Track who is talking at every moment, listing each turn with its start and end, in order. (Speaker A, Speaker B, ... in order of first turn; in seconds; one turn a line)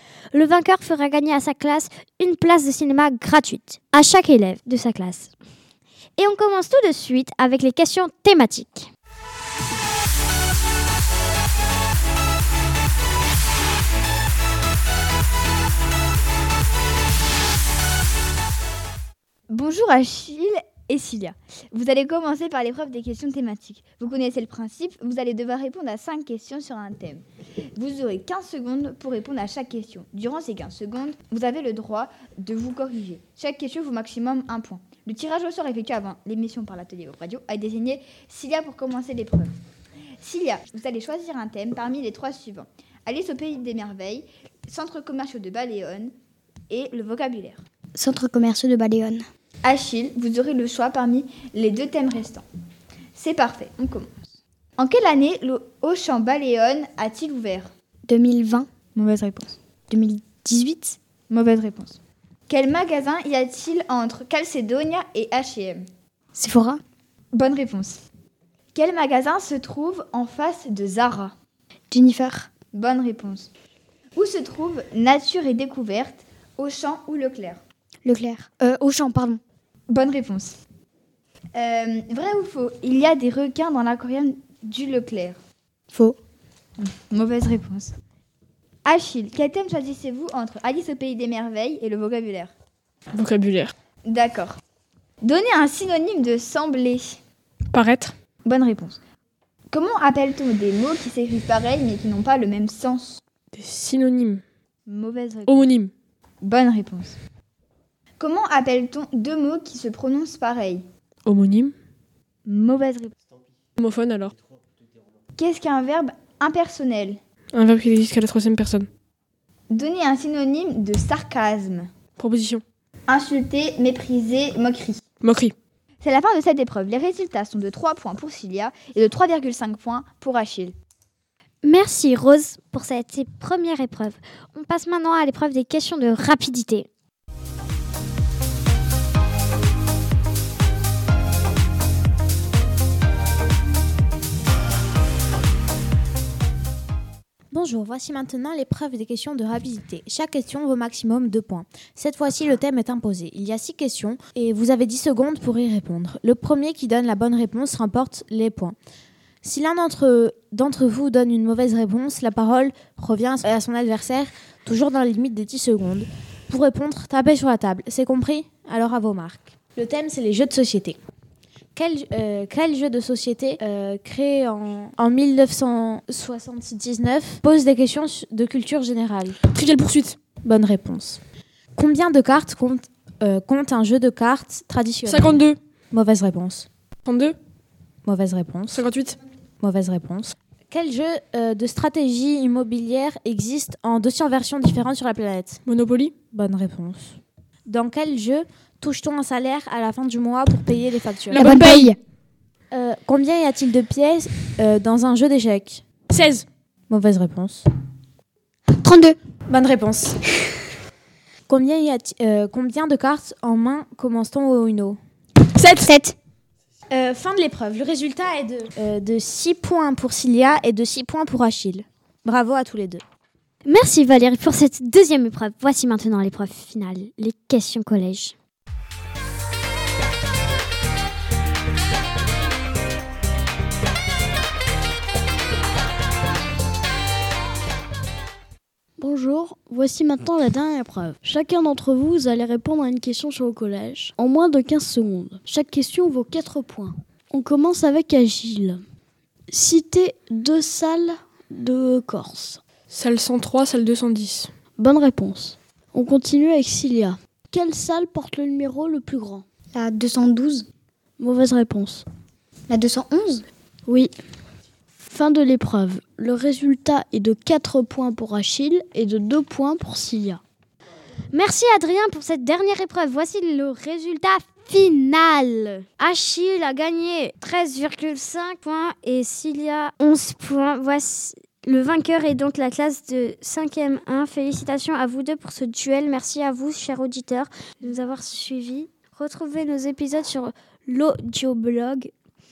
Speaker A: 0.3-5.3
Speaker A: 6.2-8.9
Speaker B: 19.5-27.2
Speaker B: 27.8-39.5
Speaker B: 40.2-46.1
Speaker B: 46.7-47.6
Speaker C: 48.0-49.2
Speaker B: 49.6-52.5
Speaker B: 53.1-54.1
Speaker B: 54.8-57.7
Speaker C: 58.1-58.7
Speaker B: 59.0-59.6
Speaker C: 59.9-60.9
Speaker B: 61.3-65.8
Speaker C: 66.4-66.8
Speaker B: 67.3-68.0
Speaker B: 68.7-71.3
Speaker C: 71.9-72.4
Speaker B: 72.7-73.5
Speaker B: 74.2-77.6
Speaker C: 78.1-79.4
Speaker B: 79.9-80.6
Speaker B: 81.5-85.4
Speaker B: 86.8-87.9
Speaker B: 88.8-92.5
Speaker D: 93.1-93.7
Speaker B: 94.1-94.6
Speaker B: 95.2-97.2
Speaker D: 97.7-98.2
Speaker B: 98.5-99.0
Speaker B: 99.7-103.2
Speaker D: 103.5-104.4
Speaker B: 104.9-105.6
Speaker D: 105.5-105.9
Speaker B: 106.4-107.2
Speaker B: 108.2-110.8
Speaker D: 111.3-111.7
Speaker B: 112.5-113.1
Speaker D: 113.8-114.3
Speaker B: 115.4-117.2
Speaker D: 117.5-118.9
Speaker B: 119.7-121.9
Speaker D: 122.2-122.6
Speaker B: 123.1-125.0
Speaker D: 125.2-125.5
Speaker B: 126.0-130.8
Speaker A: 131.6-136.9
Speaker E: 147.5-158.8
Speaker E: 159.4-171.0
Speaker E: 171.8-179.4
Speaker D: 179.5-180.2
Speaker E: 180.4-181.2
Speaker E: 181.8-186.7
Speaker D: 185.1-185.6
Speaker D: 187.1-187.4
Speaker E: 188.1-188.8
Speaker D: 188.7-189.2
Speaker E: 189.6-195.6
Speaker D: 195.7-196.1
Speaker E: 196.3-201.6
Speaker D: 201.3-201.9
Speaker C: 201.4-201.9
Speaker E: 202.7-205.8
Speaker D: 206.1-206.5
Speaker E: 206.9-207.7
Speaker C: 208.8-209.1
Speaker E: 209.5-210.2
Speaker E: 211.5-215.0
Speaker D: 215.6-215.9
Speaker E: 216.9-223.0
Speaker A: 223.7-228.3
Speaker F: 239.0-248.8
Speaker F: 249.5-252.6
Speaker D: 252.9-254.5
Speaker F: 254.8-259.5
Speaker C: 259.8-260.6
Speaker F: 261.2-262.1
Speaker C: 262.7-263.4
Speaker F: 263.9-264.1
Speaker F: 265.0-270.4
Speaker A: 271.3-292.1